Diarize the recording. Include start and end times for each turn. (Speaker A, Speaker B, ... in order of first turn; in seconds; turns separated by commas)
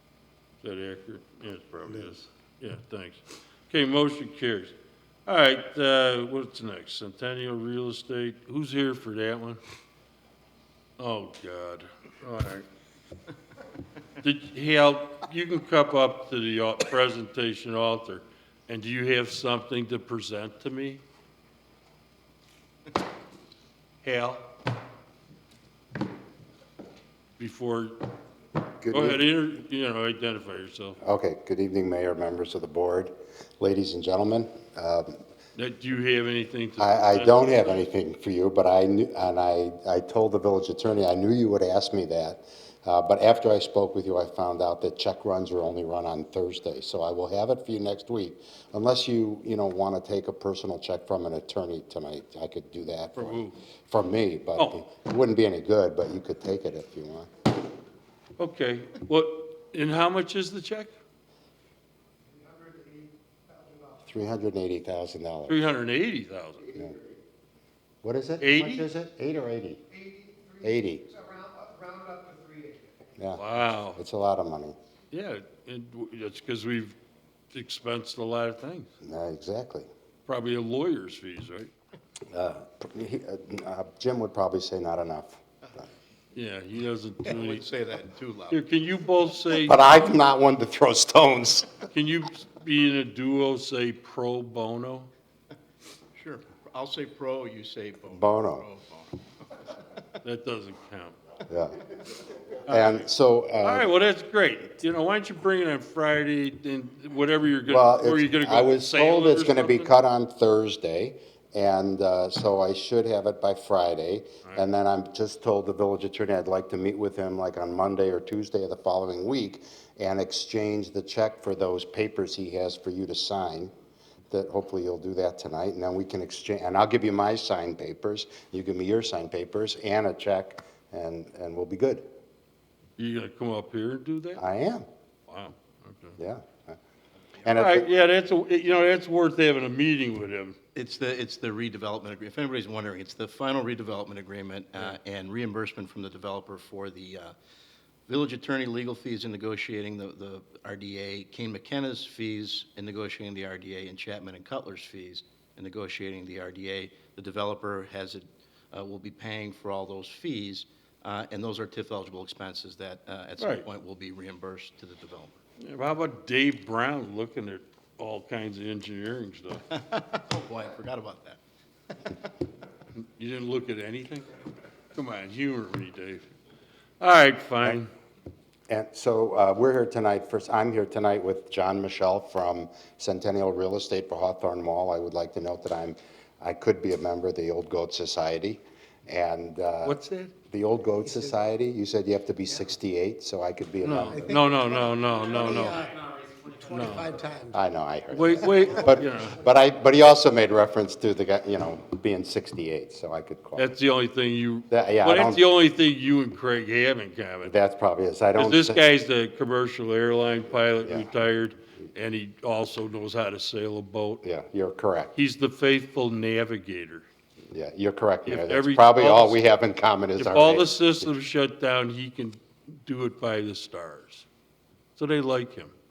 Speaker A: 0.6-4.7, Speaker A: 5.3-9.6, Speaker A: 11.0-12.7, Speaker A: 14.2-21.0, Speaker A: 24.0-24.4, Speaker A: 27.4-28.0, Speaker B: 28.8-29.2, Speaker A: 28.9-31.0, Speaker B: 31.0-35.2, Speaker A: 35.6-37.8, Speaker B: 36.8-57.3, Speaker A: 53.2-53.6, Speaker A: 58.4-61.0, Speaker C: 62.3-64.0, Speaker B: 64.1-65.6, Speaker A: 65.5-66.7, Speaker B: 68.0-69.9, Speaker A: 68.4-68.9, Speaker C: 70.1-73.0, Speaker B: 70.6-71.1, Speaker B: 73.2-74.8, Speaker A: 73.3-74.0, Speaker A: 75.1-77.0, Speaker A: 77.5-78.9, Speaker B: 79.0-79.9, Speaker A: 80.3-81.7, Speaker B: 82.3-85.8, Speaker A: 86.3-87.6, Speaker D: 87.3-88.6, Speaker A: 88.5-90.0, Speaker B: 89.5-91.8, Speaker A: 91.9-95.1, Speaker D: 96.2-99.2, Speaker B: 98.1-98.7, Speaker A: 100.2-101.2, Speaker B: 101.5-101.8, Speaker A: 102.7-103.1, Speaker B: 102.7-103.9, Speaker A: 103.6-109.9, Speaker B: 107.7-123.7, Speaker B: 124.3-132.0, Speaker A: 133.0-134.4, Speaker B: 134.4-134.8, Speaker A: 135.3-136.2, Speaker B: 136.2-136.8, Speaker B: 137.4-137.9, Speaker A: 137.5-140.6, Speaker D: 140.8-147.3, Speaker D: 148.1-165.4, Speaker A: 163.4-163.7, Speaker A: 165.6-169.7, Speaker D: 169.7-171.4, Speaker A: 172.9-174.3, Speaker A: 174.9-176.3, Speaker A: 177.0-177.9, Speaker B: 178.7-194.4, Speaker A: 189.8-190.3, Speaker A: 193.8-195.9, Speaker C: 194.2-194.7, Speaker C: 195.3-197.6, Speaker A: 196.7-197.2, Speaker B: 197.5-203.7, Speaker A: 198.1-199.4, Speaker A: 203.6-207.6, Speaker B: 204.7-205.4, Speaker B: 207.4-208.8, Speaker A: 208.4-214.2, Speaker B: 210.8-211.1, Speaker B: 214.2-215.1, Speaker A: 215.1-217.1, Speaker B: 217.5-221.1, Speaker A: 218.3-219.4, Speaker A: 220.2-224.3, Speaker A: 225.0-225.7